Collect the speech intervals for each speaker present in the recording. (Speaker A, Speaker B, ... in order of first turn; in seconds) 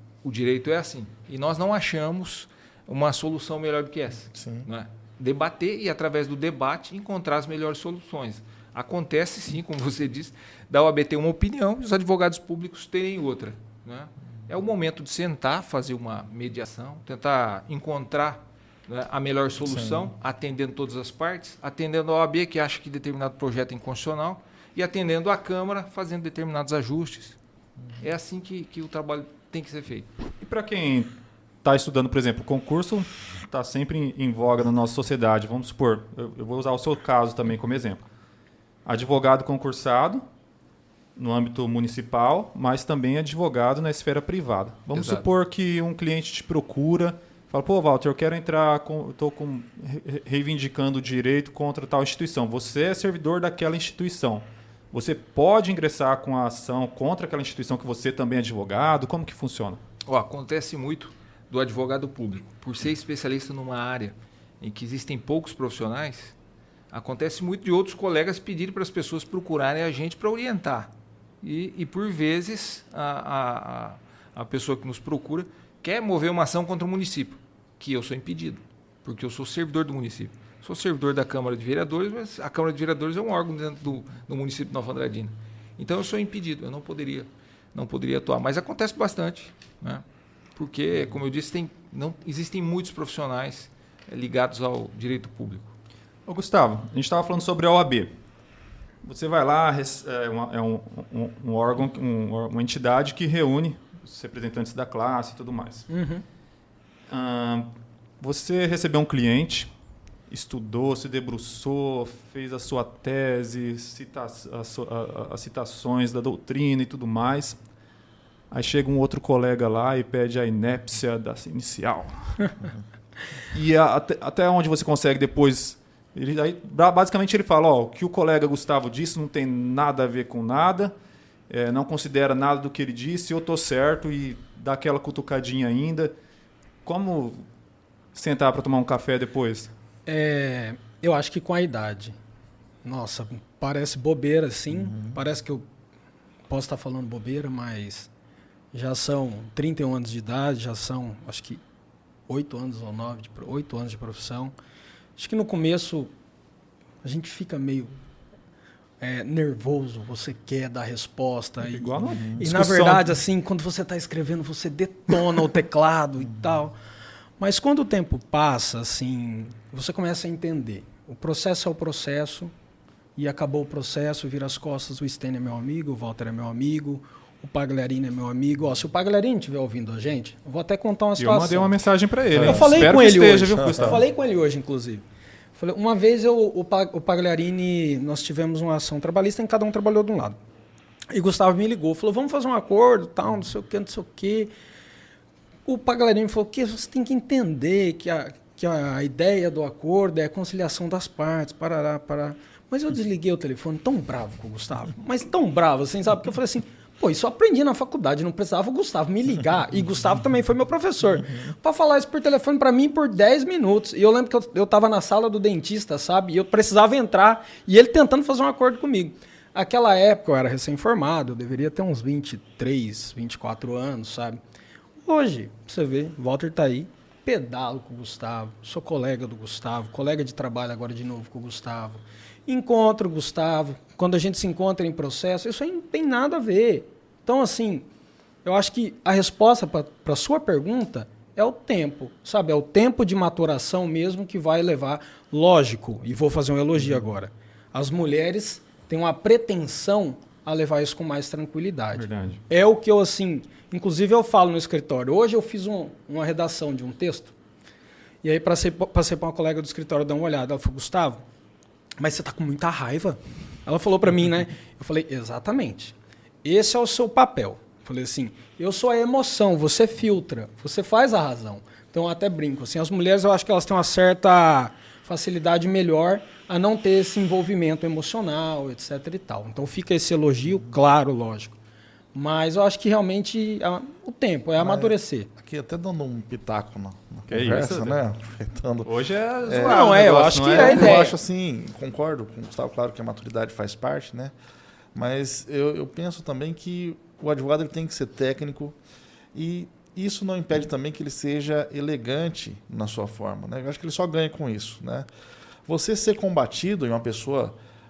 Speaker A: 0.2-27.4, 28.0-30.1, 44.9-45.2, 60.1-66.3, 66.9-90.0, 90.6-95.7
Speaker B: 4.3-4.7, 19.7-20.1, 144.8-145.2, 162.2-162.4, 182.3-182.9, 284.6-288.9, 289.4-294.3, 294.9-298.8, 299.3-305.1, 305.7-307.6
Speaker C: 30.4-31.1, 31.6-38.0, 38.9-40.2, 41.2-59.8, 96.3-98.1, 99.0-105.9, 107.1-109.7, 110.3-117.6, 118.5-122.7, 123.5-130.9, 131.5-136.1, 136.8-137.4, 138.1-139.7, 161.6-163.2, 181.2-184.0, 252.0-252.4, 287.3-288.0, 288.8-291.0
Speaker D: 105.9-106.2, 140.1-142.2, 142.8-145.7, 146.5-148.1, 148.7-151.6, 152.3-154.5, 155.2-156.1, 157.0-157.9, 159.0-166.8, 167.4-172.5, 173.2-181.7, 182.3-185.1, 185.6-190.4, 191.1-194.5, 195.7-224.4, 225.1-237.9, 238.4-257.3, 258.2-261.2, 262.0-281.6, 282.1-285.3, 289.6-291.2